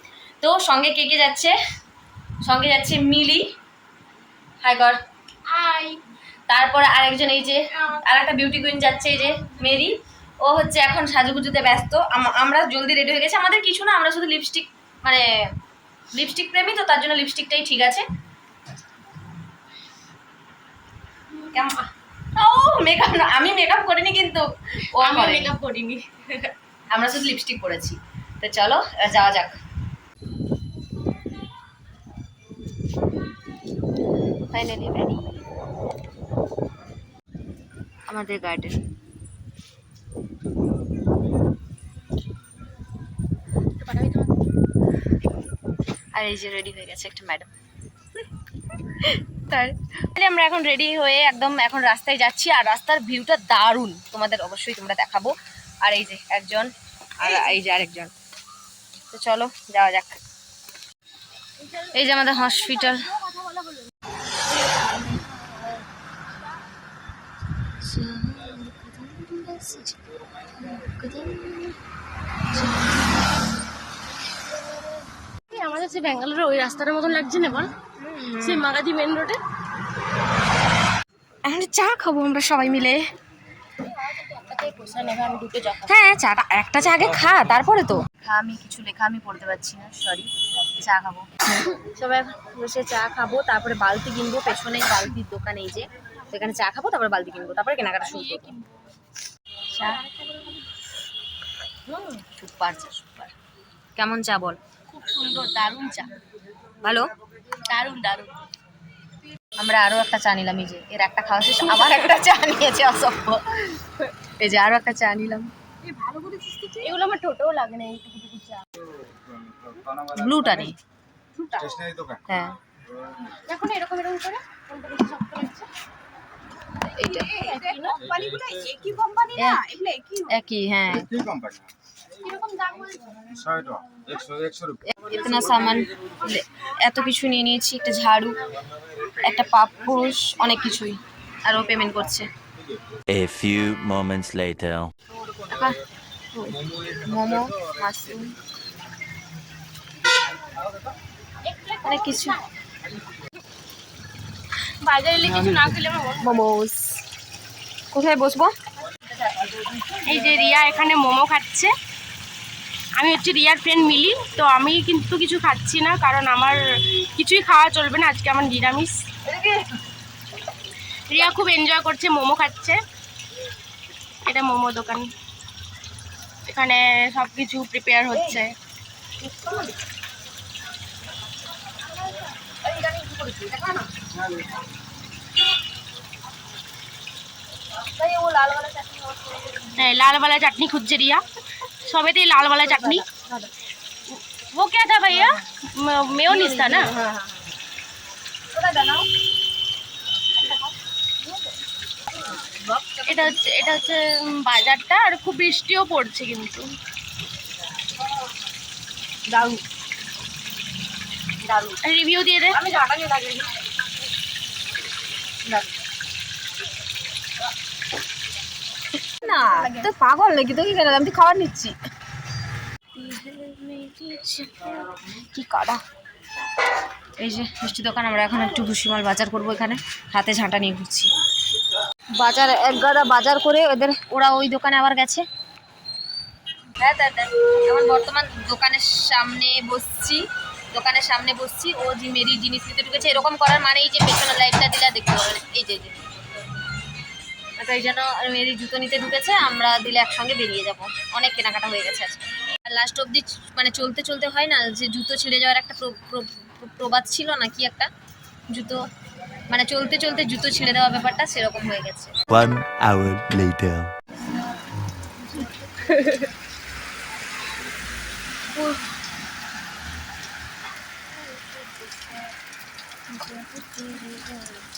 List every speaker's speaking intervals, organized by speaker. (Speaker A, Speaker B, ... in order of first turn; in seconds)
Speaker A: 0.4-1.5, 2.4-3.4, 4.6-5.0, 6.5-15.2, 16.1-18.0, 22.4-25.5, 26.9-29.6, 34.5-35.2, 38.1-38.8, 46.1-47.5, 49.3-58.1, 59.1-60.2, 61.9-63.1, 67.8-70.0, 70.6-71.8, 72.5-73.1, 78.0-78.7, 81.4-83.0, 85.8-98.5, 99.7-100.0, 102.4-103.3, 104.0-104.6, 106.8-107.1, 109.6-113.6, 114.4-115.5, 120.2-120.7, 122.3-122.6, 126.9-127.3, 129.3-129.7, 130.2-131.1, 134.9-138.4, 139.1-142.2, 145.5-145.8, 146.3-148.3, 151.8-152.4, 156.2-156.9, 157.9-158.5, 159.6-160.1, 169.2-169.6, 178.1-178.4, 179.2-179.7, 182.6-184.1, 187.9-189.9, 192.6-193.3, 195.1-195.4, 196.3-197.5, 198.5-199.0, 202.2-203.7, 209.3-209.6, 211.4-211.8, 212.5-213.5, 215.5-215.7, 219.2-221.7, 223.0-225.8, 227.2-231.1, 232.2-235.2, 236.8-245.9, 247.6-257.9, 258.5-258.8, 259.5-262.1, 273.1-274.4
Speaker B: 5.5-6.0, 21.3-21.8, 25.0-26.5, 43.8-44.3, 61.7-63.8, 65.1-65.8, 75.5-77.7, 78.4-79.4, 84.1-85.9, 98.0-98.6, 99.8-100.5, 104.9-106.1, 107.7-108.3, 111.6-112.0, 115.8-118.6, 121.4-121.8, 123.4-125.7, 127.0-130.2, 132.2-133.3, 151.5-152.4, 154.8-156.2, 160.0-161.7, 162.9-168.9, 171.1-172.8, 174.2-175.1, 176.5-178.5, 189.8-191.2, 191.9-193.1, 194.1-196.9, 203.1-206.7, 211.8-212.6, 265.8-266.2
Speaker C: 119.4-120.3, 121.7-122.2, 128.1-128.6, 131.2-131.6, 133.3-134.8
Speaker D: 143.1-144.9, 262.3-263.9